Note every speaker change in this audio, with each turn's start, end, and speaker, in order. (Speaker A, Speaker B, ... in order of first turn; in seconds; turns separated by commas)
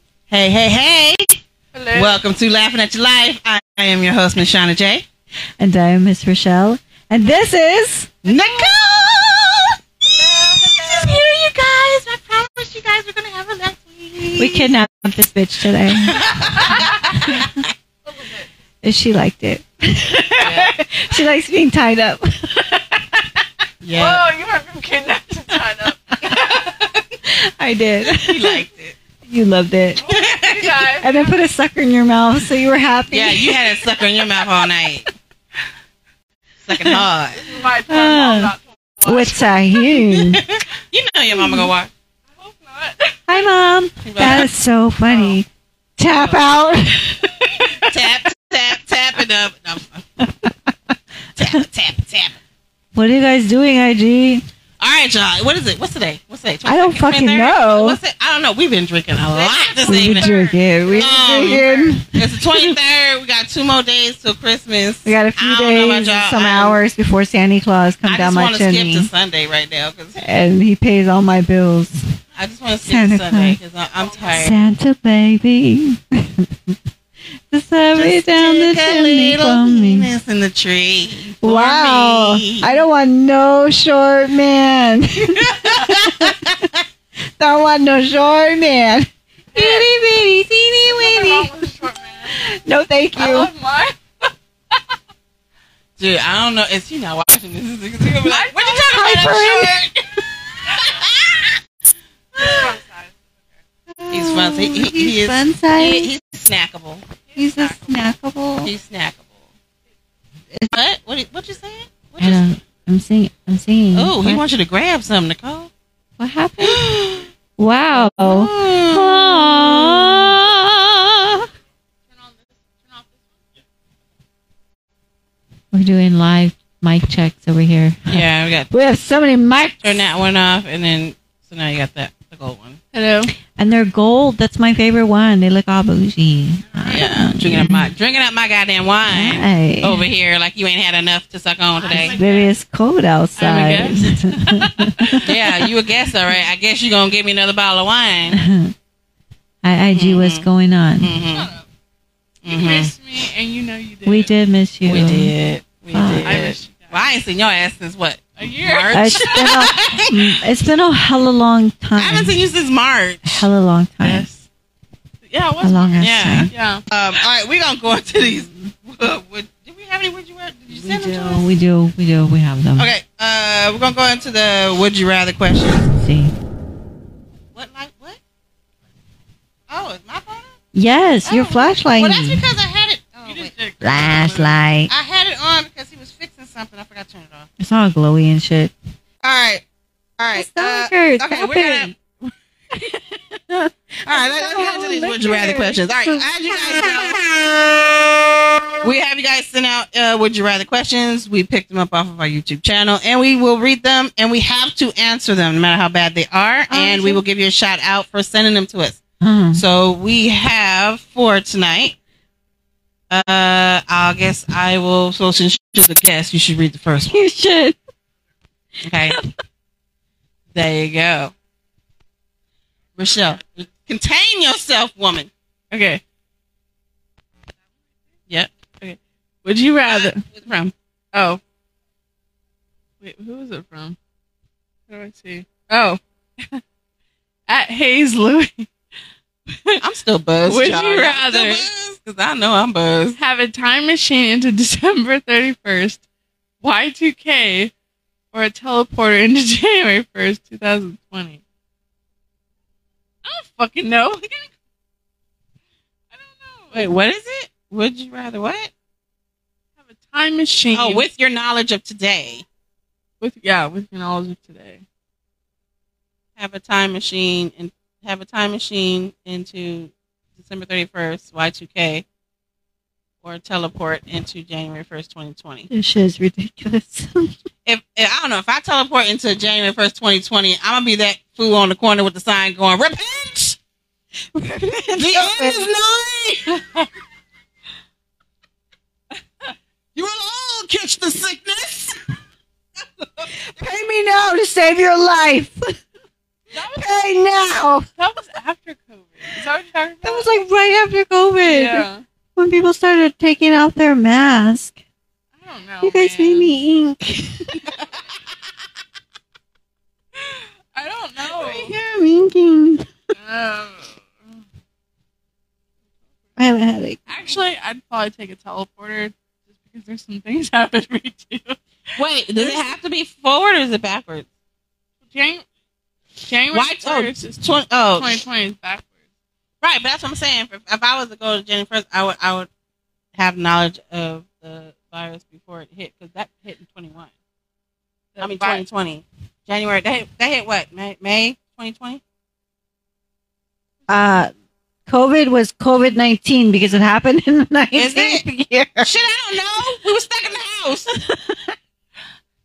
Speaker A: 0.3-1.4, Speaker B: 1.7-2.2, Speaker A: 1.9-5.0, Speaker C: 5.6-8.1, Speaker A: 8.2-9.8, Speaker B: 8.2-8.7, Speaker B: 10.2-11.1, Speaker A: 10.8-14.7, Speaker C: 14.4-17.5, Speaker A: 16.0-17.5, Speaker C: 18.8-23.2, Speaker B: 20.4-20.8, Speaker A: 23.8-24.2, Speaker B: 23.9-26.3, Speaker C: 27.2-28.6, Speaker A: 28.1-28.9, Speaker C: 29.2-30.0, Speaker B: 30.0-31.4, Speaker A: 30.1-30.7, Speaker C: 31.0-33.7, Speaker A: 33.1-35.1, Speaker A: 36.6-37.4, Speaker B: 37.4-39.5, Speaker C: 37.9-38.5, Speaker C: 39.0-40.4, Speaker A: 40.0-41.9, Speaker C: 41.3-41.7, Speaker B: 42.3-43.4, Speaker C: 43.3-45.5, Speaker A: 44.0-44.5, Speaker B: 45.1-45.4, Speaker C: 46.0-47.7, Speaker A: 46.1-46.4, Speaker B: 47.6-47.9, Speaker A: 47.9-50.0, Speaker C: 50.2-50.7, Speaker A: 51.4-52.4, Speaker C: 52.9-54.4, Speaker A: 54.8-60.3, Speaker C: 56.6-58.0, Speaker B: 59.3-62.0, Speaker C: 59.8-62.7, Speaker A: 61.0-66.8, Speaker C: 65.0-69.1, Speaker A: 68.0-70.3, Speaker C: 70.2-72.0, Speaker A: 72.3-74.6, Speaker C: 72.8-73.6, Speaker C: 74.4-76.8, Speaker C: 77.5-80.1, Speaker A: 78.0-82.8, Speaker C: 81.4-86.7, Speaker A: 85.2-86.7, Speaker C: 87.4-91.5, Speaker B: 89.5-89.9, Speaker B: 90.8-92.4, Speaker C: 92.3-93.5, Speaker B: 93.2-94.0, Speaker A: 96.0-101.6, Speaker B: 98.2-99.4, Speaker C: 98.8-99.9, Speaker B: 102.3-103.3, Speaker C: 104.0-106.1, Speaker A: 104.1-107.0, Speaker B: 107.3-108.1, Speaker C: 107.3-108.7, Speaker A: 108.6-109.3, Speaker C: 110.5-110.8, Speaker A: 110.7-112.4, Speaker C: 112.2-114.4, Speaker A: 113.9-115.7, Speaker C: 116.2-116.9, Speaker A: 116.6-117.3, Speaker C: 117.6-121.5, Speaker A: 117.9-120.3, Speaker B: 122.1-123.3, Speaker C: 125.7-130.0, Speaker A: 128.1-128.7, Speaker A: 129.8-132.8, Speaker B: 132.9-133.3, Speaker C: 133.5-137.9, Speaker A: 136.9-142.2, Speaker C: 139.1-140.1, Speaker B: 141.8-142.5, Speaker C: 141.9-145.2, Speaker B: 143.4-145.2, Speaker A: 145.2-148.4, Speaker C: 148.3-148.7, Speaker C: 149.6-151.1, Speaker A: 149.9-150.5, Speaker A: 151.0-151.5, Speaker B: 151.3-151.7, Speaker A: 152.4-152.9, Speaker B: 152.5-154.3, Speaker C: 154.1-155.3, Speaker A: 154.8-160.4, Speaker C: 155.9-156.4, Speaker B: 156.2-157.1, Speaker B: 158.4-159.5, Speaker C: 158.9-162.3, Speaker A: 162.0-163.5, Speaker C: 163.2-164.2, Speaker B: 164.0-164.4, Speaker B: 165.2-166.8, Speaker C: 165.6-166.5, Speaker A: 166.0-171.5, Speaker C: 168.2-168.6, Speaker C: 170.7-172.9, Speaker A: 172.8-175.9, Speaker C: 175.9-176.3, Speaker A: 177.5-178.2, Speaker A: 179.7-180.6, Speaker C: 180.7-182.4, Speaker A: 181.2-183.5, Speaker B: 183.2-184.5, Speaker C: 183.8-184.9, Speaker A: 184.9-187.5, Speaker C: 187.6-188.7, Speaker A: 189.2-189.6, Speaker A: 190.2-192.3, Speaker C: 190.3-191.9, Speaker C: 192.7-197.2, Speaker A: 194.1-197.5, Speaker A: 198.8-209.0, Speaker C: 206.7-207.2, Speaker C: 209.2-209.6, Speaker A: 209.5-212.0, Speaker A: 213.1-217.2, Speaker C: 217.1-217.8, Speaker A: 218.8-219.2, Speaker A: 220.5-221.3, Speaker A: 223.0-225.3, Speaker B: 225.7-226.0, Speaker B: 228.8-230.2, Speaker A: 229.9-230.7, Speaker B: 231.1-231.4, Speaker B: 233.0-234.0, Speaker B: 234.9-236.6, Speaker B: 237.5-238.7, Speaker B: 239.5-239.8, Speaker A: 239.8-243.2, Speaker B: 240.4-241.7, Speaker B: 243.2-246.0, Speaker B: 246.6-247.7, Speaker B: 248.3-251.4, Speaker B: 253.2-254.5, Speaker B: 256.1-256.9, Speaker A: 256.7-258.7, Speaker B: 259.8-261.1, Speaker A: 260.7-262.4, Speaker B: 263.2-264.8, Speaker A: 266.4-272.0, Speaker A: 273.2-275.7, Speaker C: 275.7-277.3, Speaker A: 277.6-283.6, Speaker C: 284.3-285.7, Speaker A: 285.0-286.6, Speaker B: 286.6-286.8, Speaker A: 289.9-291.9, Speaker A: 293.0-293.3, Speaker C: 293.5-295.8, Speaker B: 296.5-297.1, Speaker C: 296.7-297.9, Speaker B: 298.0-300.4, Speaker C: 300.0-304.8, Speaker B: 301.4-302.0, Speaker B: 305.4-306.5, Speaker C: 305.8-307.6, Speaker B: 310.1-311.7, Speaker C: 311.4-312.9, Speaker B: 313.1-314.4, Speaker C: 316.4-317.1, Speaker B: 317.1-321.6, Speaker A: 322.0-324.2, Speaker B: 325.1-325.4, Speaker B: 326.3-327.4, Speaker A: 326.5-328.1, Speaker B: 327.9-329.0, Speaker A: 329.6-332.5, Speaker A: 333.1-337.1, Speaker B: 338.1-338.6, Speaker A: 338.2-342.0, Speaker C: 343.9-344.3, Speaker C: 344.9-348.9, Speaker A: 347.7-348.2, Speaker A: 348.8-350.9, Speaker C: 351.0-351.5